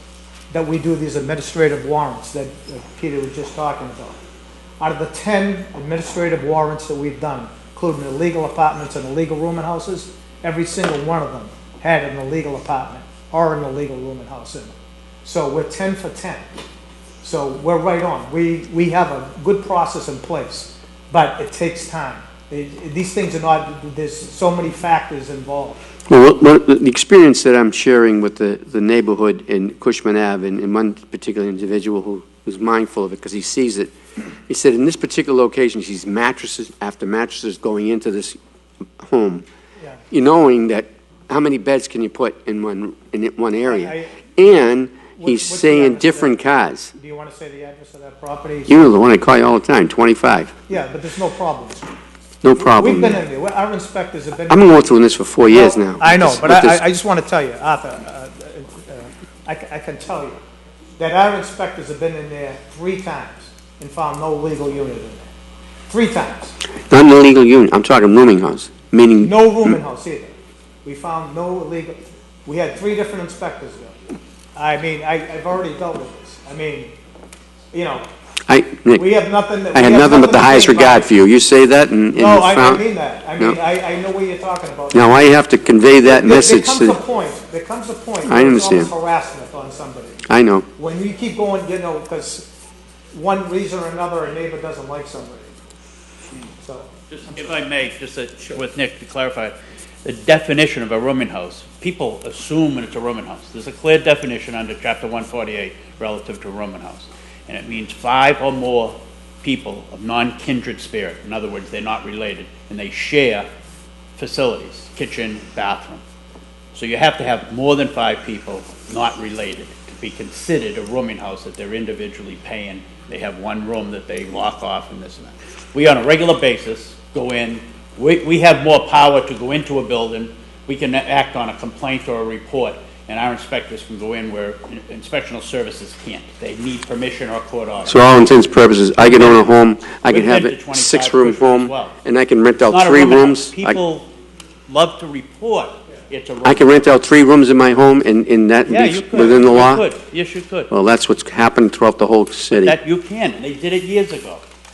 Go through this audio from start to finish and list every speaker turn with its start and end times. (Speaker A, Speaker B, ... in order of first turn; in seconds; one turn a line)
Speaker A: 0.5-4.2
Speaker A: 4.8-16.4
Speaker A: 17.2-25.8
Speaker B: 26.1-33.9
Speaker B: 34.5-38.4
Speaker B: 39.0-39.4
Speaker B: 40.1-46.9
Speaker A: 43.7-44.2
Speaker A: 45.2-46.3
Speaker A: 47.0-48.8
Speaker B: 48.7-50.5
Speaker A: 50.7-52.0
Speaker B: 52.4-53.2
Speaker A: 52.6-54.8
Speaker B: 54.5-56.8
Speaker A: 55.5-60.4
Speaker A: 61.0-65.3
Speaker A: 65.9-66.6
Speaker B: 66.9-69.4
Speaker A: 69.2-70.3
Speaker A: 70.8-73.9
Speaker A: 74.5-76.9
Speaker A: 77.7-78.0
Speaker B: 78.5-79.0
Speaker A: 78.9-81.1
Speaker B: 79.7-82.8
Speaker A: 82.2-85.2
Speaker B: 84.9-87.0
Speaker A: 86.0-90.2
Speaker B: 88.2-88.9
Speaker B: 90.3-90.7
Speaker A: 90.8-92.5
Speaker A: 93.1-95.5
Speaker A: 96.6-96.9
Speaker C: 97.1-113.5
Speaker C: 114.2-116.0
Speaker C: 116.7-138.0
Speaker B: 137.8-143.8
Speaker C: 139.0-139.5
Speaker C: 140.0-141.9
Speaker C: 142.7-144.1
Speaker C: 144.7-146.9
Speaker B: 146.4-149.8
Speaker C: 148.7-150.7
Speaker B: 150.7-152.8
Speaker C: 152.6-154.4